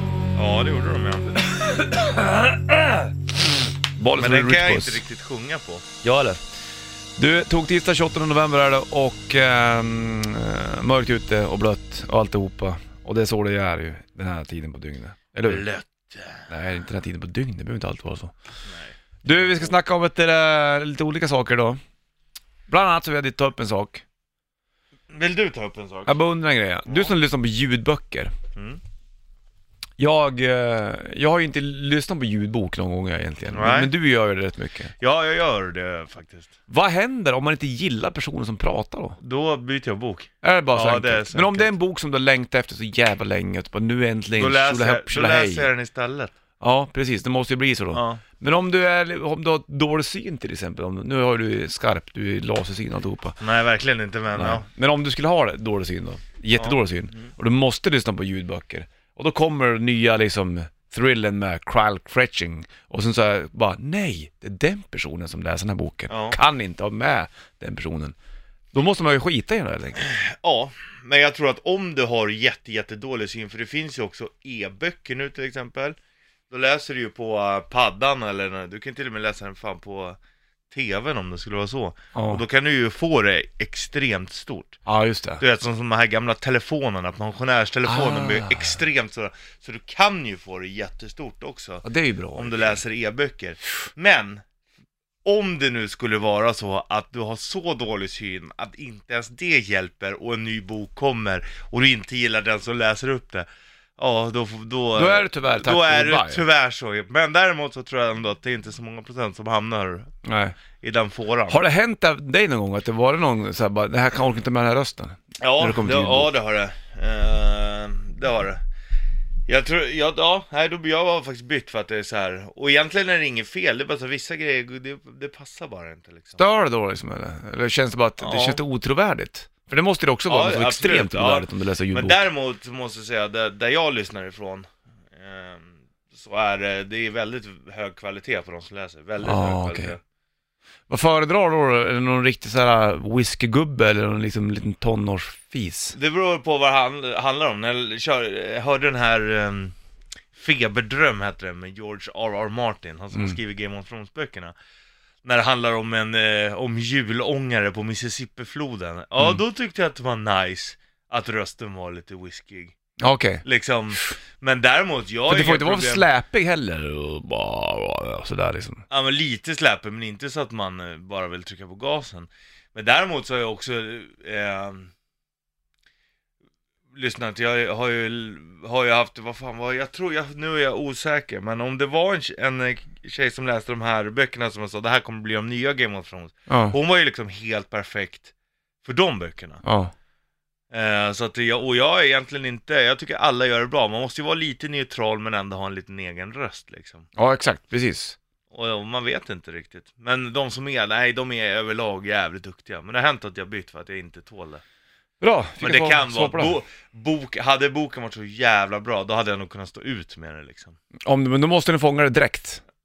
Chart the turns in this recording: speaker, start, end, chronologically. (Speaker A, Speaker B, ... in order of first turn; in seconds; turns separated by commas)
Speaker A: 0.3-1.4, Speaker B: 1.9-2.4, Speaker B: 4.0-5.0, Speaker A: 4.1-5.8, Speaker B: 6.0-6.4, Speaker B: 7.2-15.6, Speaker A: 15.4-16.4, Speaker B: 16.5-18.3, Speaker A: 18.6-19.7, Speaker B: 19.2-21.8, Speaker B: 22.7-24.0, Speaker A: 25.1-26.2, Speaker B: 26.1-28.3, Speaker A: 28.5-28.8, Speaker B: 30.0-34.9, Speaker A: 33.5-33.9, Speaker A: 35.0-36.5, Speaker B: 36.7-39.2, Speaker A: 39.2-41.7, Speaker B: 40.4-45.7, Speaker A: 44.4-46.3, Speaker B: 46.6-53.4, Speaker A: 47.9-48.2, Speaker A: 53.4-54.6, Speaker B: 54.3-68.1, Speaker A: 56.6-57.2, Speaker A: 66.1-66.4, Speaker B: 68.7-70.0, Speaker A: 70.0-76.0, Speaker A: 76.5-80.2, Speaker A: 80.7-84.8, Speaker B: 82.1-82.4, Speaker B: 84.8-85.4, Speaker A: 85.4-91.8, Speaker B: 87.9-88.7, Speaker B: 91.8-92.8, Speaker A: 92.3-94.4, Speaker A: 95.2-103.5, Speaker A: 104.0-110.1, Speaker B: 104.9-106.4, Speaker B: 110.2-110.5, Speaker A: 110.8-111.6, Speaker B: 111.5-116.3, Speaker A: 115.4-118.6, Speaker A: 119.5-126.4, Speaker B: 126.4-132.3, Speaker A: 128.2-128.6, Speaker A: 130.2-140.0, Speaker B: 139.2-139.9, Speaker B: 140.9-145.9, Speaker A: 145.9-149.7, Speaker A: 150.3-154.5, Speaker A: 155.2-162.7, Speaker B: 163.0-163.4, Speaker A: 163.4-166.1, Speaker B: 165.3-168.8, Speaker A: 168.9-174.9, Speaker A: 176.9-188.3, Speaker B: 186.5-186.8, Speaker A: 188.8-189.6, Speaker B: 189.6-189.9, Speaker A: 190.7-197.1, Speaker B: 197.2-198.2, Speaker A: 198.5-204.6, Speaker B: 205.2-206.6, Speaker A: 205.6-210.8, Speaker B: 211.1-212.6